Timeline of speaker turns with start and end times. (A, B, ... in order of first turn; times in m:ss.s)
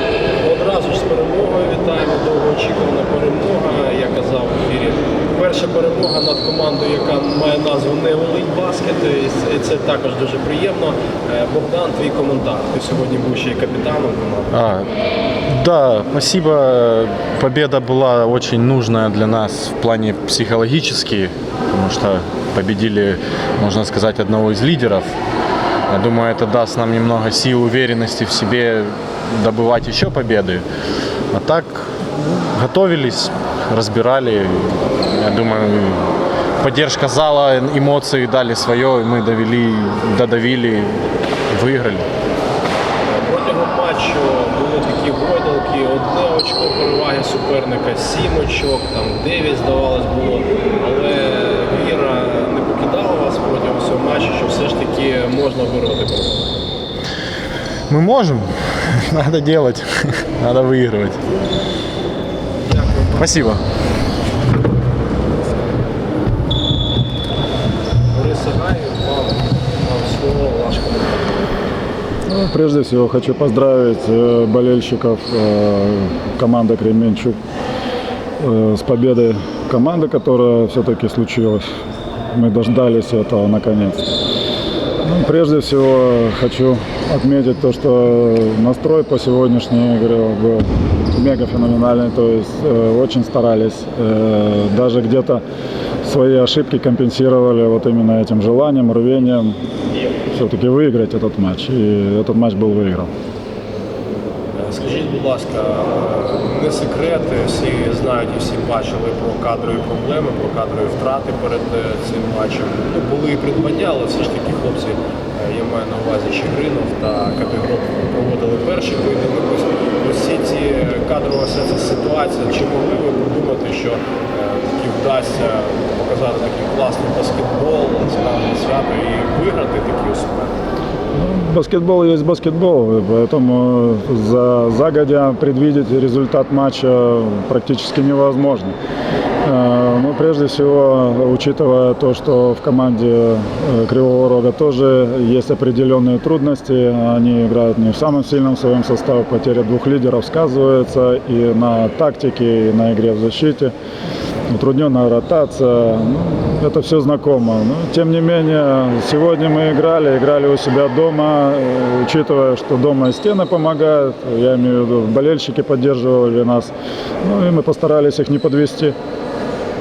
0:00.4-0:14.7 A
0:14.5-0:14.9 B
0:15.5-0:25.2 B
0:25.9-0:30.6 B
0:31.3-0:42.1 B
0:43.1-0:56.5 A
0:57.9-1:01.2 B
1:02.6-1:03.4 A
1:03.2-1:03.6 B
1:08.1-1:11.3 A
1:12.3-1:17.4 C
1:18.4-1:21.6 C
1:22.3-1:24.1 C
1:25.0-1:35.4 C
1:36.0-1:39.6 C
1:40.3-1:43.1 C
1:44.6-2:10.6 A
2:11.2-2:18.7 C
2:19.4-2:33.7 C
2:34.5-2:46.7 C
2:47.2-2:49.0 C